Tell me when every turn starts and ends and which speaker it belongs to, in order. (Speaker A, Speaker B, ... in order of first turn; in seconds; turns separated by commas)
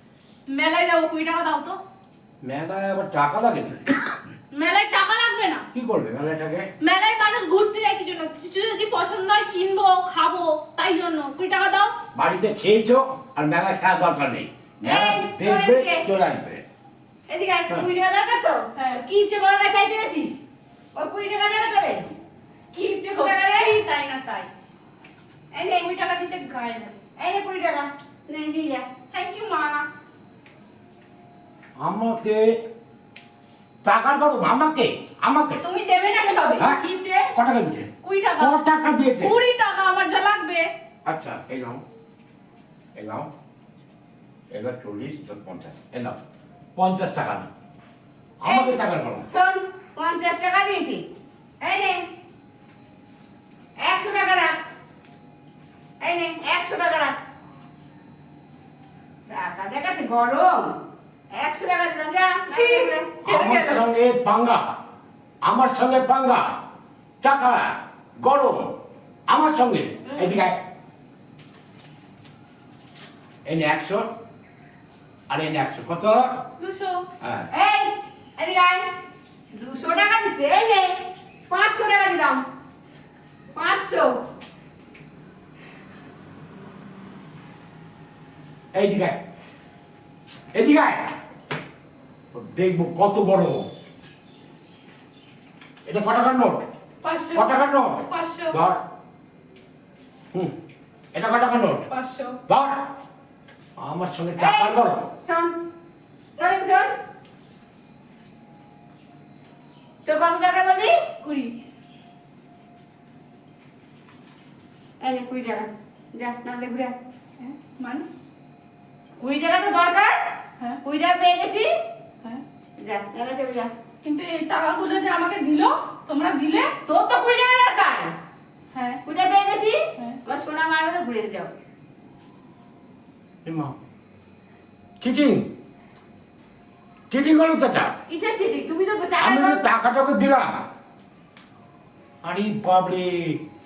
Speaker A: 0.5-1.8, Speaker B: 2.4-3.9, Speaker A: 4.5-5.6, Speaker B: 5.7-6.7, Speaker A: 6.8-11.9, Speaker B: 12.1-16.6, Speaker C: 14.8-16.1, Speaker C: 17.3-20.3, Speaker A: 18.7-19.0, Speaker C: 20.9-22.1, Speaker C: 22.7-23.7, Speaker A: 23.0-24.5, Speaker C: 25.5-25.9, Speaker A: 25.8-27.0, Speaker C: 27.2-28.9, Speaker A: 29.1-29.8, Speaker B: 31.8-32.5, Speaker B: 33.8-35.6, Speaker A: 35.6-36.7, Speaker C: 36.1-37.3, Speaker B: 37.3-39.4, Speaker A: 38.0-38.6, Speaker A: 39.2-40.7, Speaker B: 41.0-41.8, Speaker B: 43.0-43.3, Speaker B: 44.5-46.2, Speaker B: 46.8-47.5, Speaker B: 48.4-49.3, Speaker C: 48.4-51.0, Speaker C: 51.6-52.0, Speaker C: 53.8-54.5, Speaker C: 56.0-57.1, Speaker C: 59.3-60.7, Speaker C: 61.3-63.1, Speaker A: 62.5-63.9, Speaker B: 63.2-64.6, Speaker B: 65.4-66.5, Speaker B: 67.2-67.7, Speaker B: 68.2-68.6, Speaker B: 69.3-70.6, Speaker C: 70.1-70.4, Speaker B: 73.4-74.0, Speaker B: 75.3-76.3, Speaker A: 76.6-77.0, Speaker B: 77.2-77.5, Speaker C: 77.5-78.8, Speaker C: 79.5-82.4, Speaker C: 83.5-84.2, Speaker B: 88.7-89.2, Speaker B: 90.5-91.1, Speaker B: 92.3-93.7, Speaker B: 95.8-96.6, Speaker A: 97.0-98.6, Speaker B: 97.3-98.8, Speaker B: 101.1-101.9, Speaker A: 101.9-102.4, Speaker B: 102.5-102.9, Speaker B: 103.8-105.1, Speaker C: 104.4-105.6, Speaker C: 106.3-106.9, Speaker C: 110.0-110.9, Speaker A: 111.2-111.5, Speaker C: 115.0-116.9, Speaker A: 117.4-118.1, Speaker C: 119.2-120.3, Speaker C: 120.8-121.9, Speaker C: 122.8-123.7, Speaker A: 124.0-126.7, Speaker C: 126.8-128.1, Speaker A: 128.7-129.0, Speaker C: 129.0-131.5, Speaker B: 133.4-133.7, Speaker B: 135.0-135.5, Speaker B: 137.1-137.9, Speaker C: 138.1-139.6, Speaker B: 139.2-140.5, Speaker B: 142.2-143.4